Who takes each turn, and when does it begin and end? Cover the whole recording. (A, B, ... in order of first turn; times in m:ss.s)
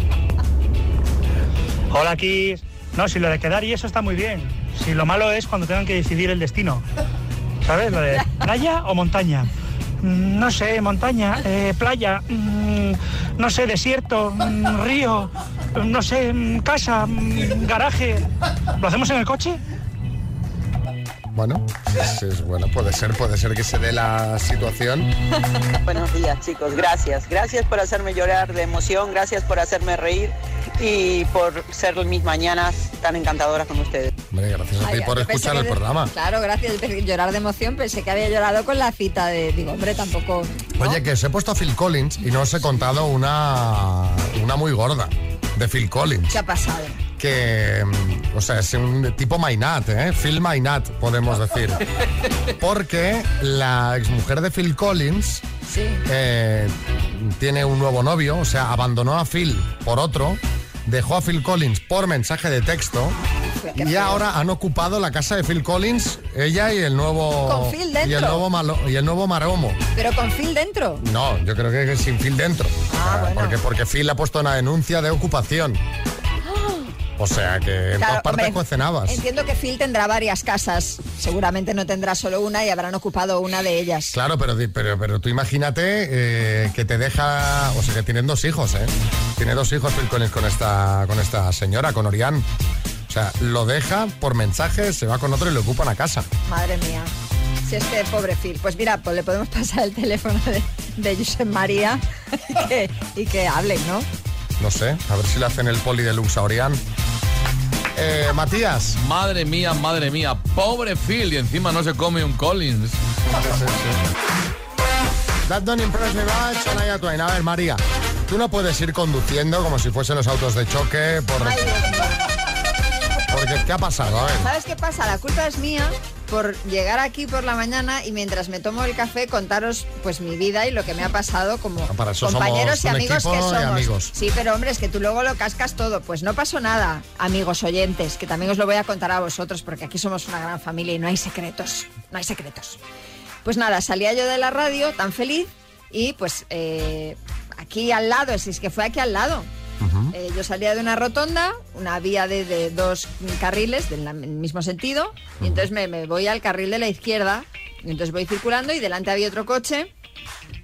0:01.9-0:06.8 A
0:07.6-0:09.5 A
0:10.0-0:18.2 A
0:18.8-0:19.6 A
0:21.3-0:25.1 B
0:25.8-0:34.1 C
0:34.3-0:36.1 B
0:34.8-0:41.0 D
0:40.8-0:46.4 B
0:46.3-0:47.0 D
0:47.2-0:51.8 B
0:52.6-0:55.4 B
0:55.7-0:56.0 D
0:56.1-1:03.2 B
1:03.6-1:04.2 D
1:03.8-1:09.8 B
1:07.5-1:08.4 D
1:10.0-1:11.0 D
1:11.0-1:15.8 B
1:12.9-1:13.6 D
1:17.2-1:19.2 B
1:18.0-1:24.2 D
1:24.1-1:32.5 B
1:33.1-1:36.3 B
1:36.5-1:37.1 D
1:37.6-1:44.1 D
1:44.6-1:46.8 B
1:48.0-1:49.0 B
1:49.0-1:53.0 E
1:53.3-1:54.0 B
1:55.5-2:01.8 B
2:01.4-2:02.3 D
2:03.3-2:04.5 B
2:04.4-2:22.8 D
2:11.9-2:14.1 B
2:23.4-2:29.5 D
2:29.8-2:30.1 B
2:30.1-2:39.9 D
2:35.4-2:35.7 B